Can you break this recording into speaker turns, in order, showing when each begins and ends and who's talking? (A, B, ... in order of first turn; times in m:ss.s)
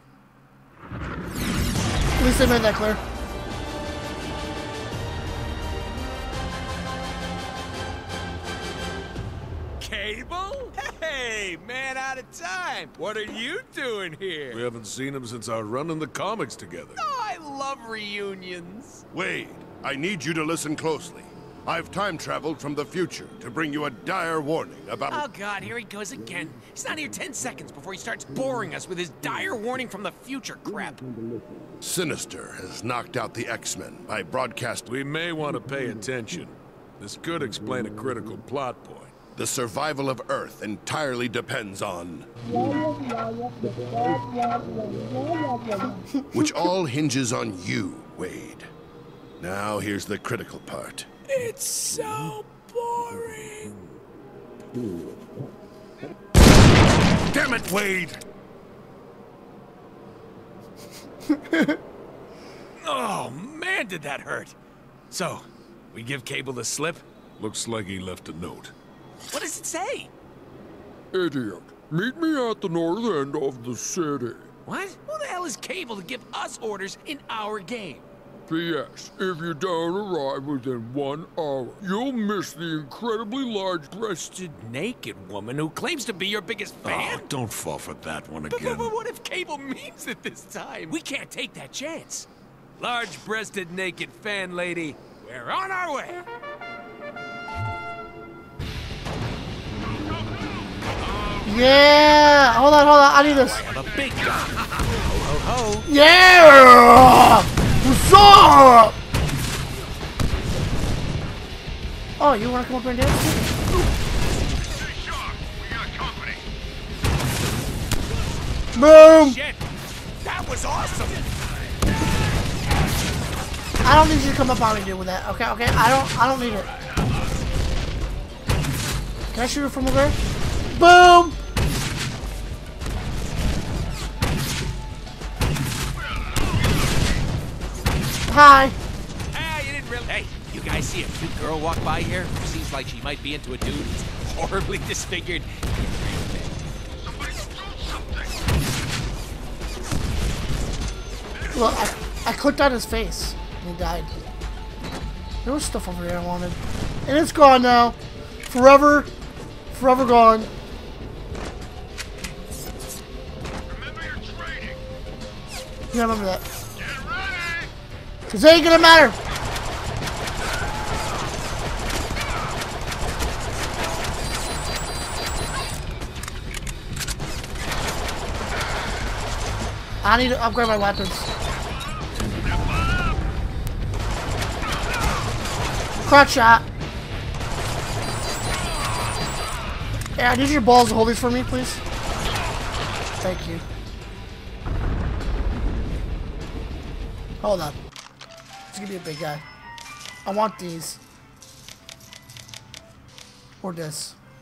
0:02.2-0:03.0 A
0:09.8-0:14.6 B
0:14.5-0:17.0 C
0:17.0-0:19.0 B
0:19.1-0:25.3 D
0:25.1-0:31.0 B
0:31.8-0:34.9 D
0:34.8-0:39.1 C
0:39.3-0:42.3 D
0:46.0-0:46.4 A
0:46.3-0:48.7 D
0:49.4-0:51.1 D
0:51.3-0:53.8 B
0:57.3-0:58.2 D
1:01.3-1:01.8 A
1:02.8-1:04.6 B
1:05.1-1:07.0 B
1:07.4-1:08.7 C
1:09.3-1:10.1 B
1:11.1-1:14.5 E
1:14.6-1:18.1 B
1:18.5-1:24.3 E
1:24.3-1:27.3 B
1:26.8-1:28.9 C
1:28.5-1:32.3 B
1:32.8-1:36.2 B
1:41.4-1:43.6 A
1:43.2-1:45.9 B
1:45.9-1:49.0 A
1:52.2-1:53.5 A
1:55.2-1:56.3 D
1:58.7-1:59.4 A
1:58.7-1:59.6 B
2:00.2-2:01.3 B
2:03.8-2:06.7 A
2:09.3-2:10.2 A
2:10.7-2:11.4 A
2:18.3-2:18.8 A
2:19.3-2:26.6 B
2:31.5-2:34.1 A
2:35.4-2:39.1 A
2:39.7-2:40.5 A
2:43.9-2:44.4 D
2:45.9-2:46.4 A
2:48.3-2:49.2 A
3:00.0-3:01.3 A
3:06.0-3:06.6 A
3:10.2-3:11.8 A
3:13.2-3:13.6 A
3:17.4-3:17.8 A
3:18.7-3:19.4 A
3:20.2-3:21.0 A
3:23.6-3:24.2 A